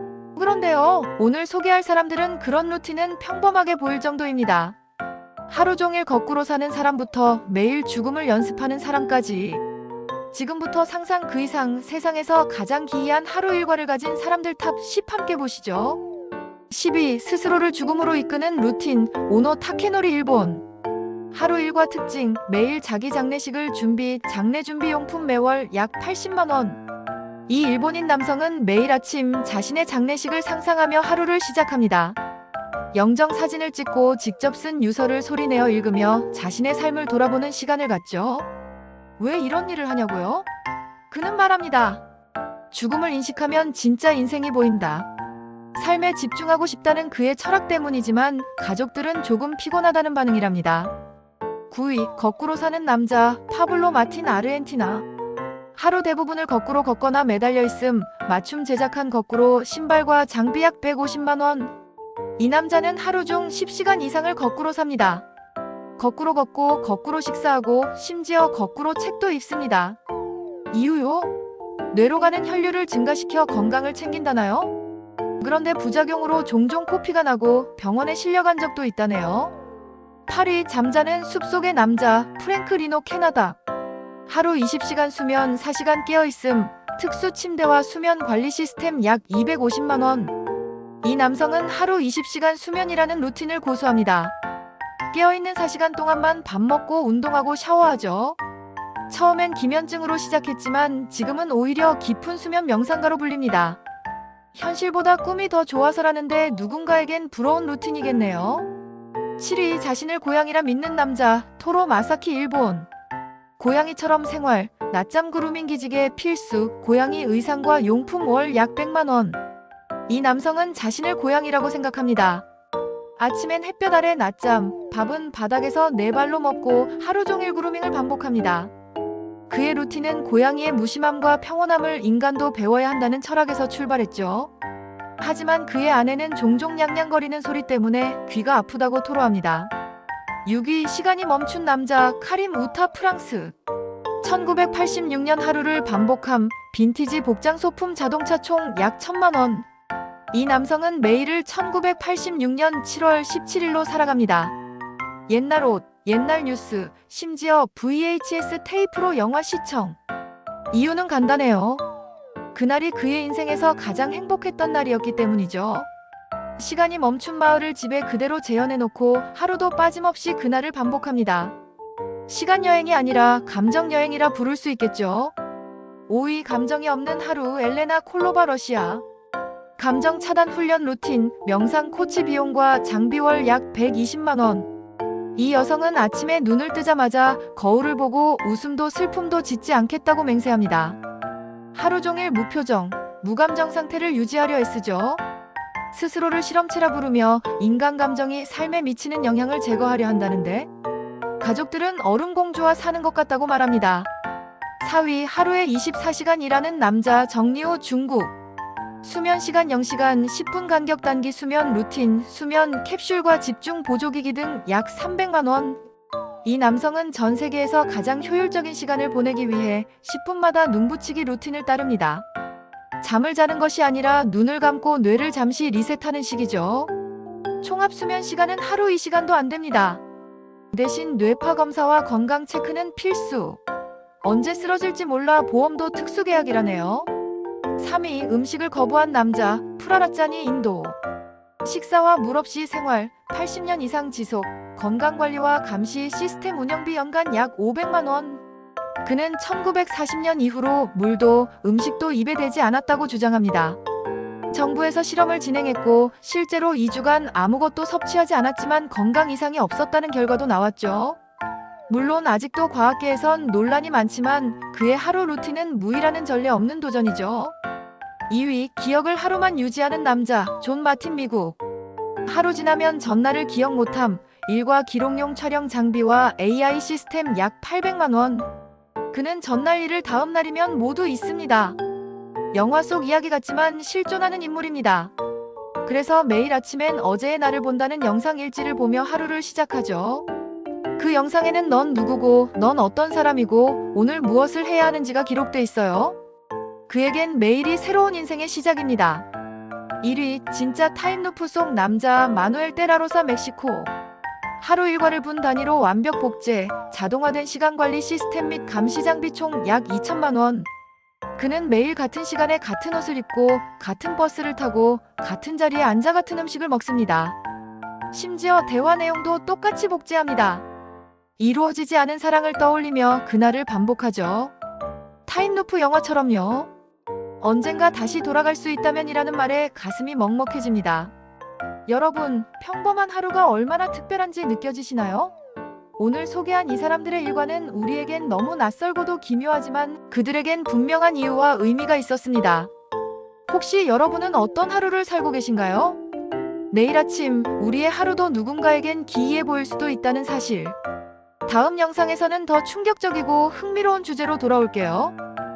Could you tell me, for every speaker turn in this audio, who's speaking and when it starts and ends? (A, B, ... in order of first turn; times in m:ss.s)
0:00.4-0:04.8 A
0:05.5-0:09.6 A
0:10.3-0:16.0 A
0:16.7-0:20.6 A
0:21.3-0:26.8 A
0:27.5-0:32.2 A
0:32.9-0:38.5 A
0:39.2-0:40.5 A
0:41.1-0:42.0 A
0:42.7-0:45.1 A
0:45.8-0:50.9 A
0:51.7-0:55.0 A
0:55.8-1:01.7 A
1:02.4-1:05.3 A
1:06.0-1:10.0 A
1:10.7-1:11.3 A
1:11.9-1:14.7 A
1:15.4-1:19.5 A
1:20.3-1:23.6 A
1:24.3-1:30.3 A
1:31.0-1:34.3 A
1:35.1-1:38.4 A
1:39.1-1:43.8 A
1:44.5-1:48.7 A
1:49.4-1:52.9 A
1:53.6-1:59.4 A
2:00.1-2:02.5 A
2:03.2-2:08.7 A
2:09.5-2:14.5 A
2:15.2-2:19.7 A
2:20.4-2:23.5 A
2:24.2-2:29.7 A
2:30.3-2:34.6 A
2:35.3-2:40.0 A
2:40.7-2:41.8 A
2:42.5-2:45.9 A
2:46.6-2:51.6 A
2:52.3-2:55.3 A
2:56.1-2:59.0 A
2:59.8-3:04.7 A
3:05.4-3:11.0 A
3:11.7-3:15.2 A
3:15.9-3:20.7 A
3:21.4-3:24.1 A
3:24.8-3:28.3 A
3:29.0-3:35.8 A
3:36.4-3:42.2 A
3:43.0-3:46.9 A
3:47.6-3:50.0 A
3:50.7-3:53.6 A
3:54.2-3:57.1 A
3:57.8-4:01.0 A
4:01.6-4:08.4 A
4:09.0-4:13.8 A
4:14.5-4:21.2 A
4:21.9-4:27.5 A
4:28.3-4:31.6 A
4:32.2-4:38.5 A
4:39.1-4:41.8 A
4:42.5-4:45.1 A
4:45.8-4:50.3 A
4:51.0-4:56.2 A
4:56.9-4:59.3 A
5:00.0-5:03.9 A
5:04.6-5:10.7 A
5:11.4-5:17.4 A
5:18.1-5:20.7 A
5:21.4-5:24.5 A
5:25.3-5:26.7 A
5:27.4-5:31.1 A
5:31.9-5:35.3 A
5:36.0-5:42.7 A
5:43.5-5:46.0 A
5:46.7-5:50.8 A
5:51.5-5:55.2 A